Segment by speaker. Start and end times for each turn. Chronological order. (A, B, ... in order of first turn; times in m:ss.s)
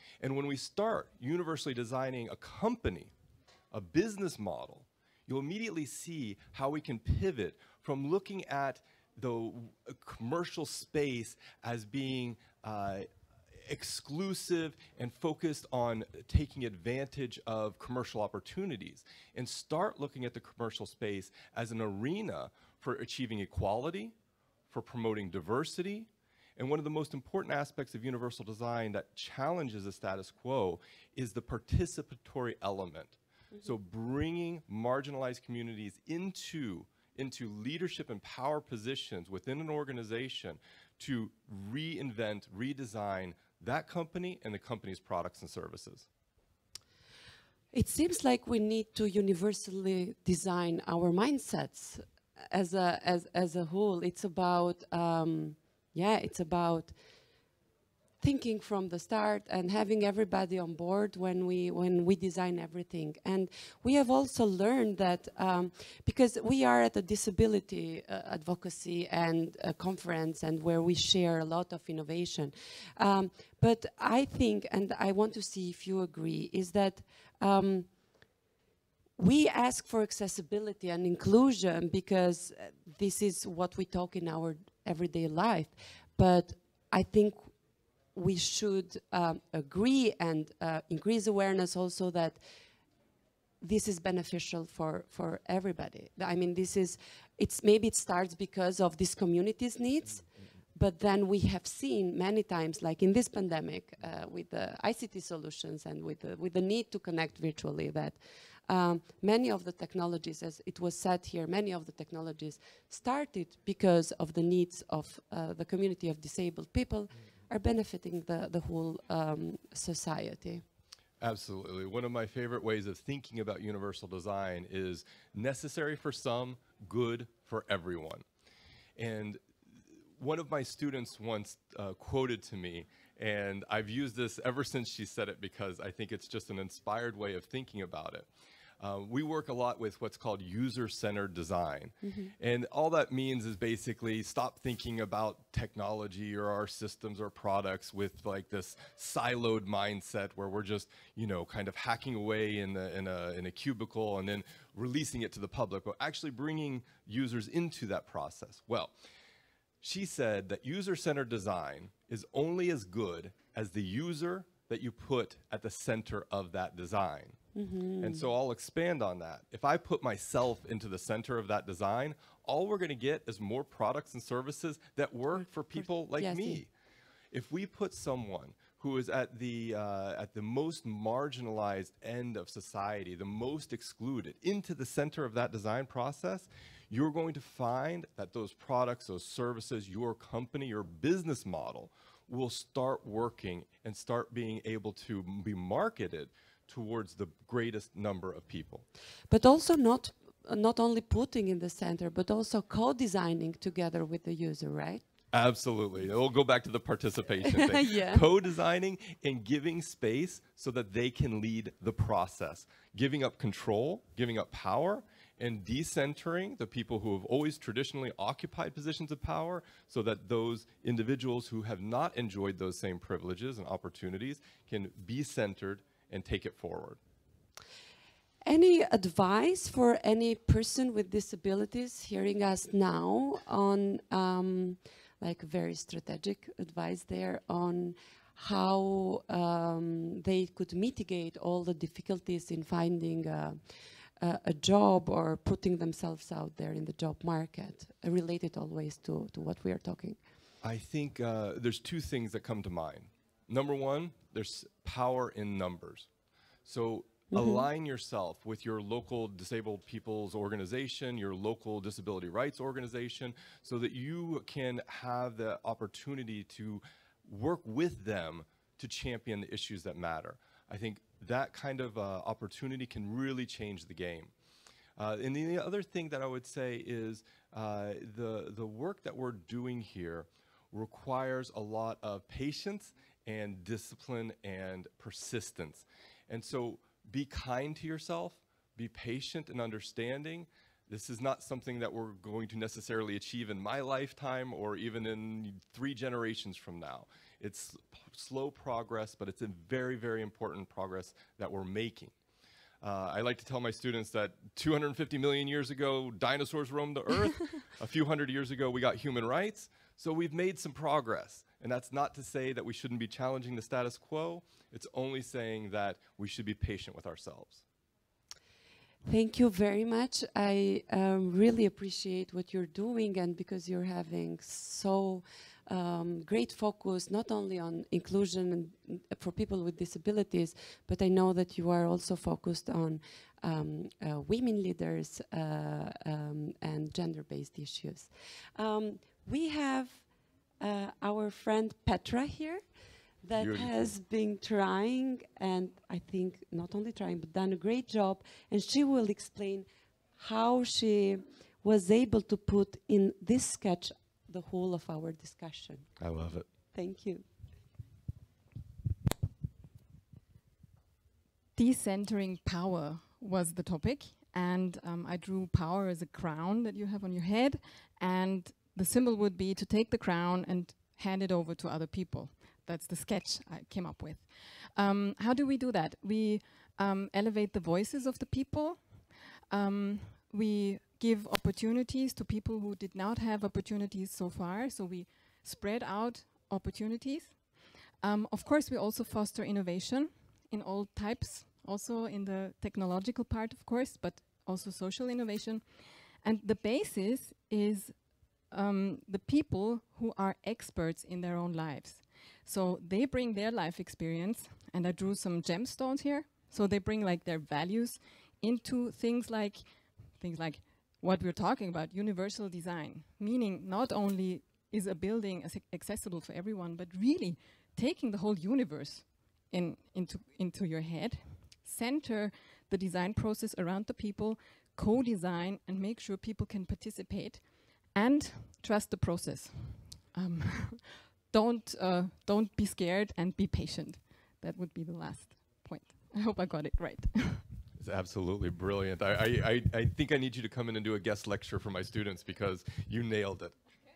0:00.2-0:03.1 A
0:03.7-0:13.0 A
0:13.6-0:24.1 A
0:24.7-0:46.1 A
0:47.7-0:56.9 B
0:58.2-1:17.9 B
1:19.2-1:27.5 B
1:28.1-1:32.4 B
1:33.6-2:00.6 B
2:01.2-2:08.2 A
2:09.0-2:09.4 A
2:10.2-2:18.3 A
2:18.8-2:38.9 A
2:22.0-2:22.3 B
2:39.8-2:47.4 A
2:47.5-2:48.2 B
2:48.0-2:56.7 A
2:55.4-2:56.6 B
2:57.3-3:18.8 A
3:19.3-3:25.0 B
3:25.3-3:47.0 A
3:27.6-3:28.2 B
3:48.4-4:03.6 B
4:04.2-4:10.2 B
4:10.6-4:16.1 A
4:16.6-4:34.3 A
4:17.3-4:17.7 B
4:35.0-5:02.1 A
5:02.8-5:17.6 A
5:19.1-5:40.1 B
5:40.6-5:42.6 B
5:43.2-5:55.9 B
5:43.4-5:43.7 A
5:56.0-5:56.5 A
5:56.7-5:57.2 B
6:01.6-7:17.5 C
7:17.8-7:23.5 A